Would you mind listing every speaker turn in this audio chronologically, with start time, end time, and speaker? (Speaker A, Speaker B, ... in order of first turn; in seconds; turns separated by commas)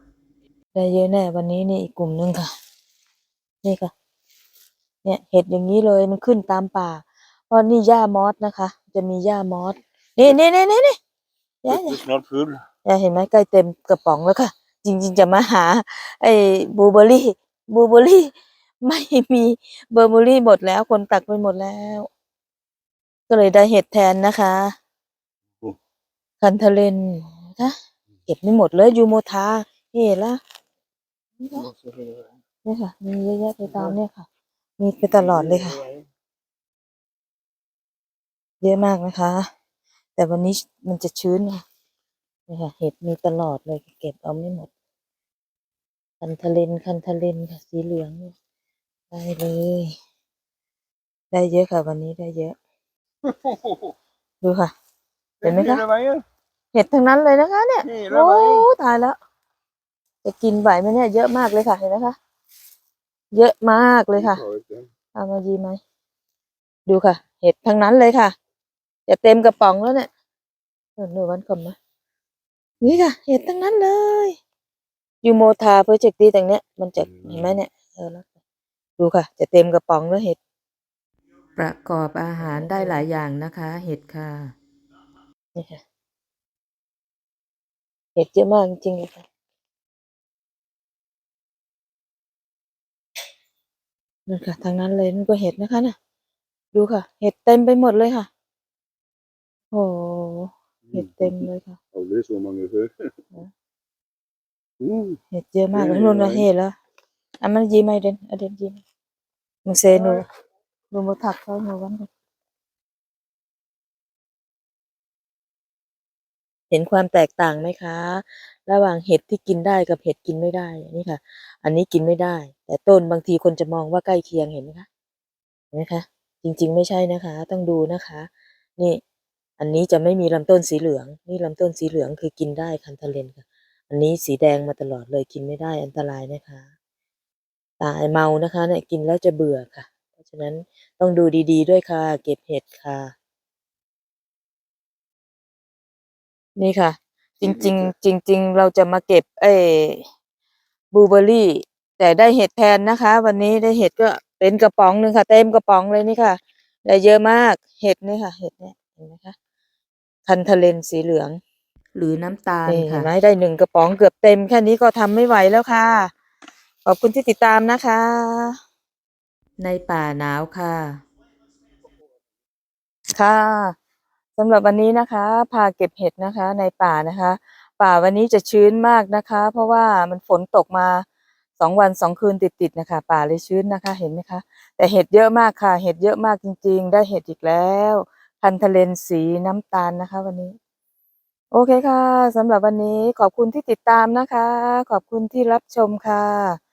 Speaker A: 0.7-2.5, Speaker A: 3.6-3.9, Speaker A: 5.0-11.0, Speaker A: 11.6-12.0, Speaker B: 11.7-12.6, Speaker A: 12.8-22.1, Speaker A: 23.3-24.7, Speaker A: 26.4-27.7, Speaker A: 28.2-30.4, Speaker A: 31.4-31.7, Speaker B: 31.6-32.3, Speaker A: 32.6-34.3, Speaker A: 34.8-35.8, Speaker B: 35.1-36.0, Speaker A: 38.6-39.5, Speaker A: 40.1-41.6, Speaker A: 42.5-44.7, Speaker A: 46.2-48.3, Speaker A: 49.1-50.0, Speaker A: 51.3-52.5, Speaker B: 53.2-53.8, Speaker A: 54.4-54.7, Speaker B: 55.4-56.2, Speaker A: 55.4-55.8, Speaker A: 56.7-59.2, Speaker B: 57.8-58.7, Speaker A: 60.2-62.1, Speaker A: 63.3-64.4, Speaker B: 64.2-64.9, Speaker A: 65.1-65.8, Speaker A: 66.9-68.3, Speaker A: 69.1-70.1, Speaker A: 71.0-71.8, Speaker A: 72.8-74.3, Speaker A: 75.2-78.3, Speaker A: 79.0-80.4, Speaker C: 81.6-84.5, Speaker A: 82.4-83.0, Speaker A: 85.5-85.8, Speaker A: 88.1-89.2, Speaker A: 94.3-95.9, Speaker A: 96.7-98.3, Speaker A: 99.7-101.8, Speaker B: 100.9-102.9, Speaker B: 104.8-105.2, Speaker A: 105.3-106.7, Speaker B: 105.7-106.5, Speaker A: 107.4-108.8, Speaker A: 109.6-110.2, Speaker A: 110.9-112.1, Speaker A: 116.7-124.8, Speaker A: 125.7-129.0, Speaker A: 129.6-136.7, Speaker A: 137.8-143.1, Speaker A: 146.6-150.0, Speaker A: 150.9-159.3, Speaker A: 160.2-161.4, Speaker C: 161.9-163.1, Speaker A: 162.7-166.1, Speaker A: 166.8-168.6, Speaker C: 169.6-171.0, Speaker A: 173.1-173.7, Speaker A: 174.4-181.0, Speaker A: 181.6-190.6, Speaker A: 191.5-196.6